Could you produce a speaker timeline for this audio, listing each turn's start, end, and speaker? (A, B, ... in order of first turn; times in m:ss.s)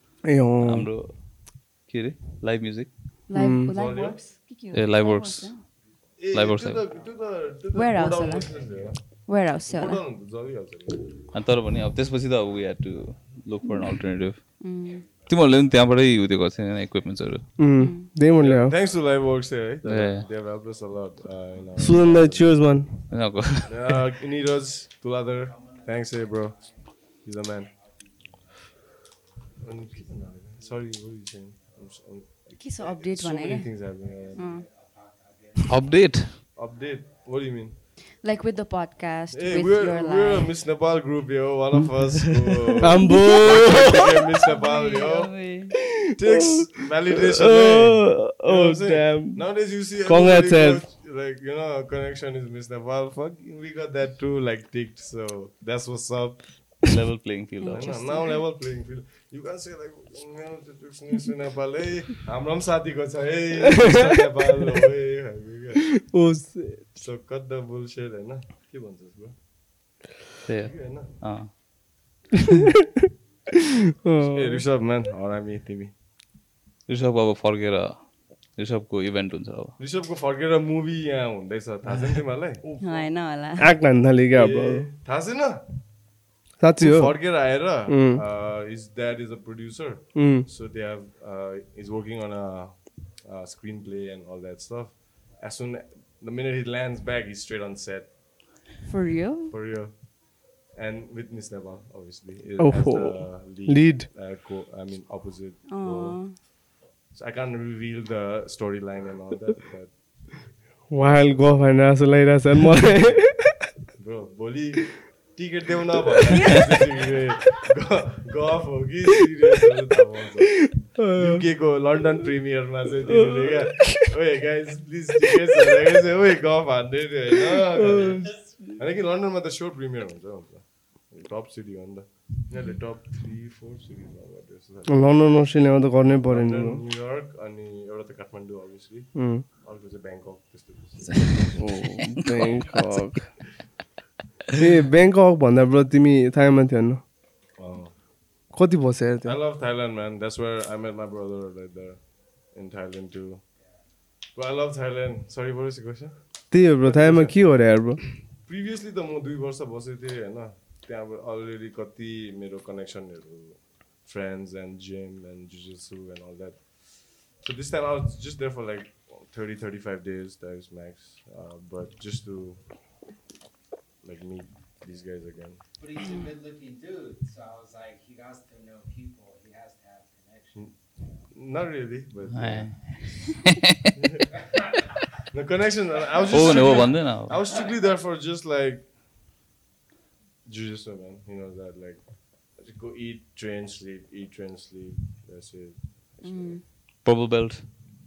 0:00.2-0:00.9 A
0:00.6-0:03.2 B
0:03.3-0:05.6 C
0:03.4-0:03.7 A
0:03.6-0:04.3 D
0:04.7-0:07.2 B
0:05.8-0:06.2 E
0:06.2-0:11.3 D
0:06.9-0:09.1 E
0:07.7-0:10.0 C
0:11.3-0:14.7 B
0:14.6-0:15.0 C
0:14.8-0:17.6 E
0:15.2-0:17.5 B
0:17.6-0:18.7 A
0:17.8-0:18.1 C
0:18.4-0:22.7 D
0:18.7-0:20.5 E
0:19.8-0:20.3 B
0:21.6-0:22.6 E
0:21.8-0:23.1 A
0:23.1-0:23.7 B
0:23.7-0:27.7 D
0:25.4-0:32.1 E
0:29.6-0:34.5 D
0:32.6-0:34.7 C
0:33.4-0:37.4 E
0:35.7-0:36.4 B
0:36.5-0:37.8 D
0:38.2-0:40.5 C
0:39.3-0:45.6 D
0:42.8-0:43.9 A
0:43.0-0:43.9 C
0:44.5-0:45.9 C
0:46.1-0:57.0 D
0:46.2-0:50.9 A
0:56.9-0:58.1 B
0:57.6-0:58.4 C
0:57.7-1:06.1 D
1:06.1-1:06.9 A
1:07.0-1:10.0 D
1:10.5-1:11.5 B
1:10.6-1:11.6 D
1:14.0-1:14.6 A
1:14.2-1:16.0 D
1:16.9-1:19.8 B
1:19.8-1:23.0 D
1:22.8-1:23.8 C
1:23.6-1:24.9 A
1:24.3-1:25.9 D
1:26.6-1:28.2 A
1:26.8-1:38.6 D
1:30.1-1:30.5 A
1:38.8-1:39.6 C
1:39.5-1:51.3 D
1:42.6-1:44.1 A
1:45.7-1:46.4 C
1:50.9-1:53.6 A
1:53.9-2:15.5 D
1:56.3-1:56.7 C
2:00.9-2:01.4 A
2:03.1-2:03.9 A
2:07.8-2:08.8 A
2:14.9-2:16.8 A
2:16.3-2:21.6 D
2:19.1-2:19.4 A
2:21.1-2:22.7 B
2:21.6-2:23.4 A
2:24.6-2:27.0 A
2:27.6-2:28.1 D
2:28.5-2:29.4 A
2:29.2-2:53.1 D
2:33.6-2:33.9 E
2:36.5-2:38.1 A
2:54.0-2:55.7 D
2:55.8-3:01.4 E
3:00.5-3:02.9 D
3:02.3-3:03.6 B
3:05.3-3:08.9 D
3:06.1-3:07.4 E
3:06.3-3:07.4 B
3:10.4-3:16.6 D
3:16.2-3:16.6 C
3:17.0-3:17.7 B